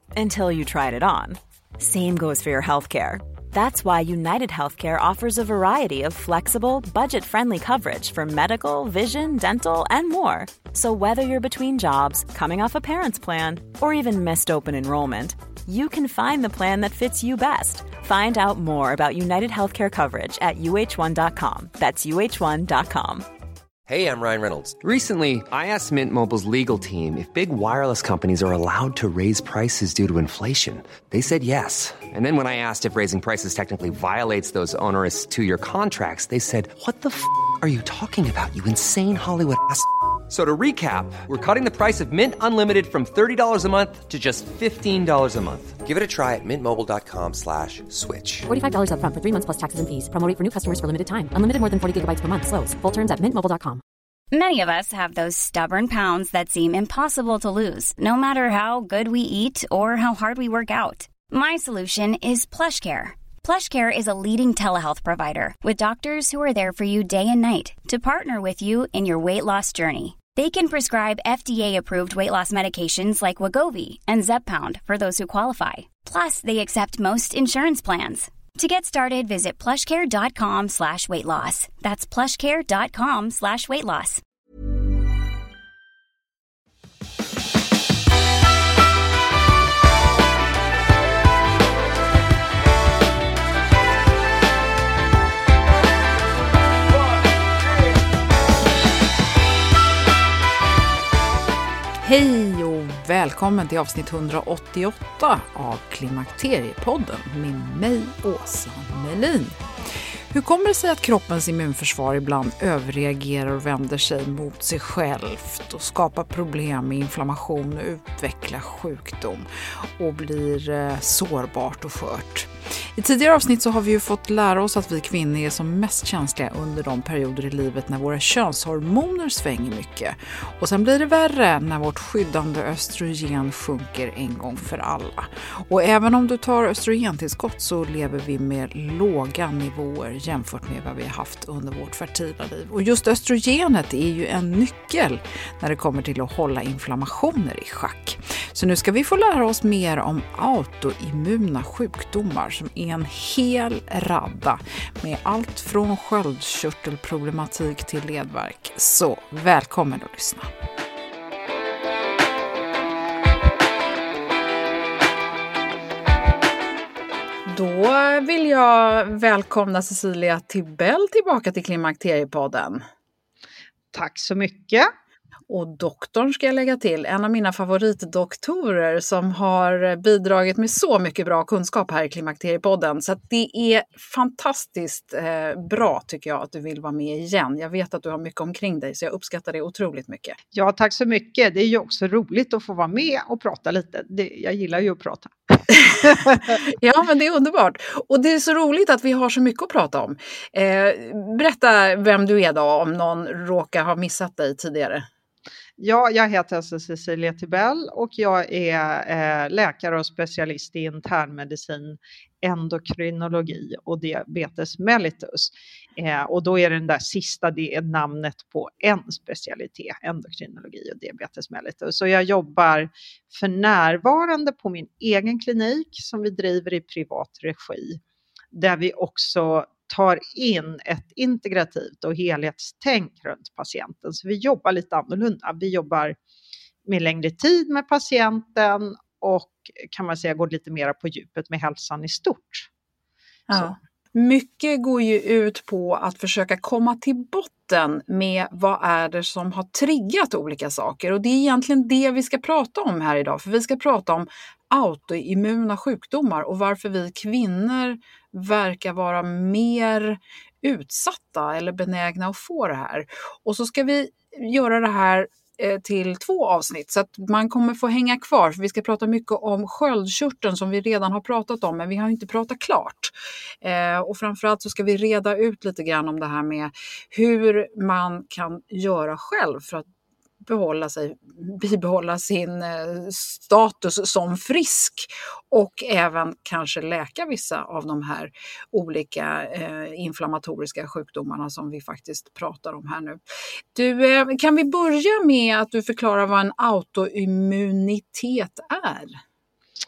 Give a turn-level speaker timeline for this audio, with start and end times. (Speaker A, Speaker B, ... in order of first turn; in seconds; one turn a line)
Speaker A: 0.1-23.2
Speaker B: 23.9-48.5
Speaker C: 48.5-53.8
Speaker D: 54.3-84.2
Speaker E: 102.0-109.6
Speaker E: 110.3-160.5
Speaker E: 167.5-172.8
Speaker F: 173.9-174.9
Speaker E: 175.5-190.4
Speaker F: 190.5-196.5
Speaker E: 196.3-205.0
Speaker F: 205.8-228.0
Speaker F: 228.5-236.2
Speaker F: 236.9-242.7
Speaker E: 243.5-279.9
Speaker E: 280.4-293.2
Speaker E: 293.7-299.2